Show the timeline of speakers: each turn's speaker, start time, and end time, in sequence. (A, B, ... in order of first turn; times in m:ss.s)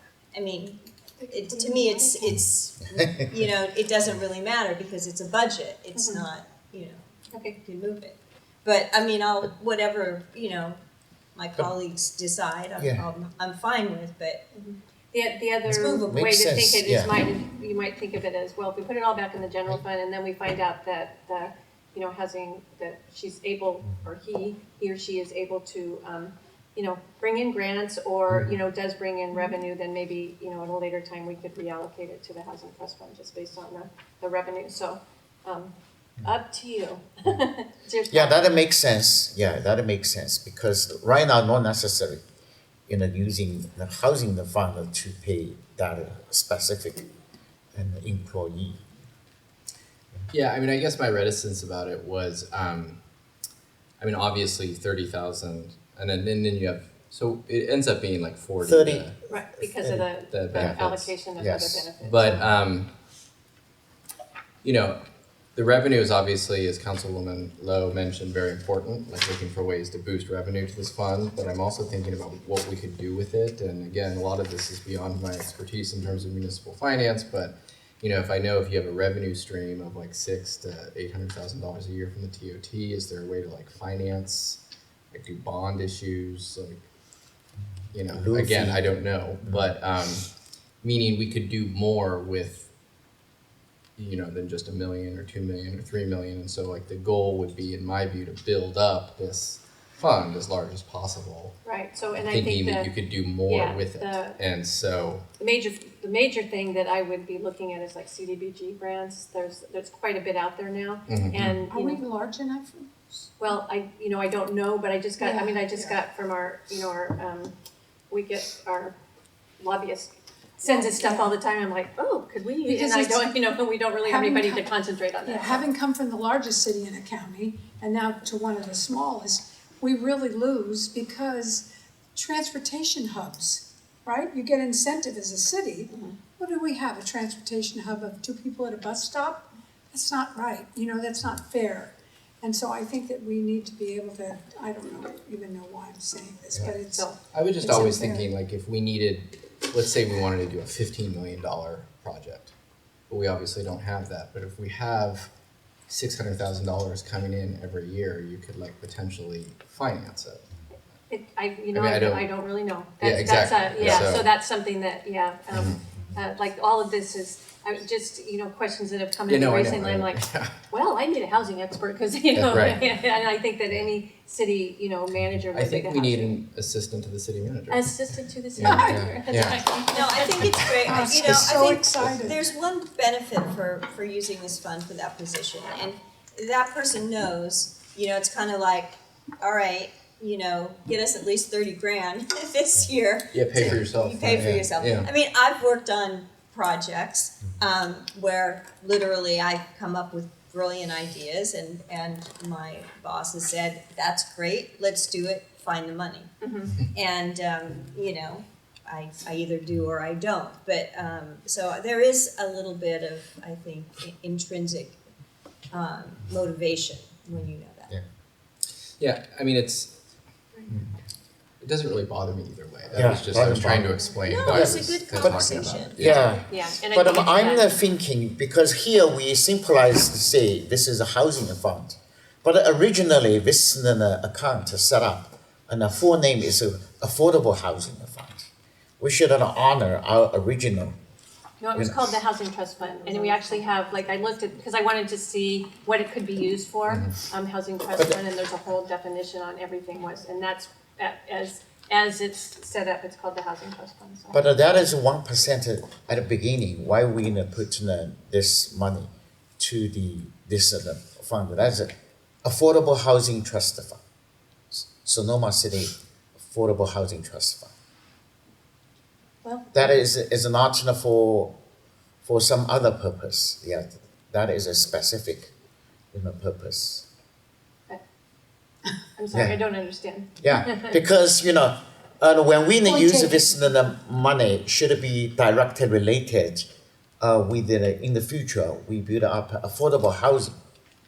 0:00.3-0:10.8 A
0:01.6-0:02.2 B
0:06.0-0:06.2 C
0:07.3-0:07.6 C
0:11.4-0:14.4 A
0:12.8-0:13.0 D
0:14.5-0:38.3 C
0:15.7-0:16.2 A
0:15.7-0:17.1 D
0:38.1-0:42.2 D
0:42.9-0:47.1 D
0:47.7-0:48.8 D
0:50.3-0:53.0 E
0:54.0-1:01.2 E
0:58.6-0:59.0 D
0:59.3-1:02.4 C
1:00.5-1:01.9 D
1:02.0-1:02.9 E
1:04.6-1:05.0 E
1:05.5-1:24.6 E
1:25.1-1:26.8 E
1:27.9-1:30.3 E
1:28.1-1:29.7 D
1:30.8-1:32.7 E
1:34.0-1:41.6 E
1:41.6-1:44.4 C
1:42.2-1:45.2 E
1:45.4-1:52.0 C
1:51.1-1:51.6 E
1:51.6-1:53.6 B
1:53.4-1:57.5 C
1:55.2-1:56.0 B
1:58.1-1:59.0 C
1:59.6-2:05.7 C
2:00.6-2:01.4 B
2:02.6-2:28.3 B
2:27.3-2:32.5 E
2:33.1-2:35.3 E
2:35.9-2:40.5 E
2:41.1-2:56.4 C
2:41.7-2:42.4 E
2:43.0-2:44.3 E
2:45.5-2:45.8 E
2:49.3-2:50.6 E
2:52.3-2:52.8 E
2:55.5-2:59.7 E
2:57.7-3:00.5 C
2:58.6-2:59.1 B
2:59.9-3:35.0 A
3:00.4-3:00.9 E
3:00.7-3:02.4 B
3:13.3-3:15.1 E
3:13.7-3:14.7 D
3:26.4-3:26.7 C
3:35.7-3:37.9 A
3:39.0-3:39.9 E
3:41.6-3:46.3 E
3:42.9-3:44.9 D
3:44.2-3:46.3 A
3:45.9-3:58.5 D
3:46.3-3:47.6 C
3:59.0-4:01.0 D
4:01.6-4:14.4 C
4:01.8-4:02.1 D
4:06.9-4:07.1 E
4:14.3-4:24.0 D
4:24.7-4:27.7 D
4:29.4-4:29.9 C
4:29.7-4:31.6 D
4:32.2-4:35.5 D
4:36.1-4:37.1 D
4:39.2-4:41.0 C
4:39.3-4:39.6 D
4:40.4-4:46.7 D
4:42.8-4:43.4 B
4:47.2-4:50.5 D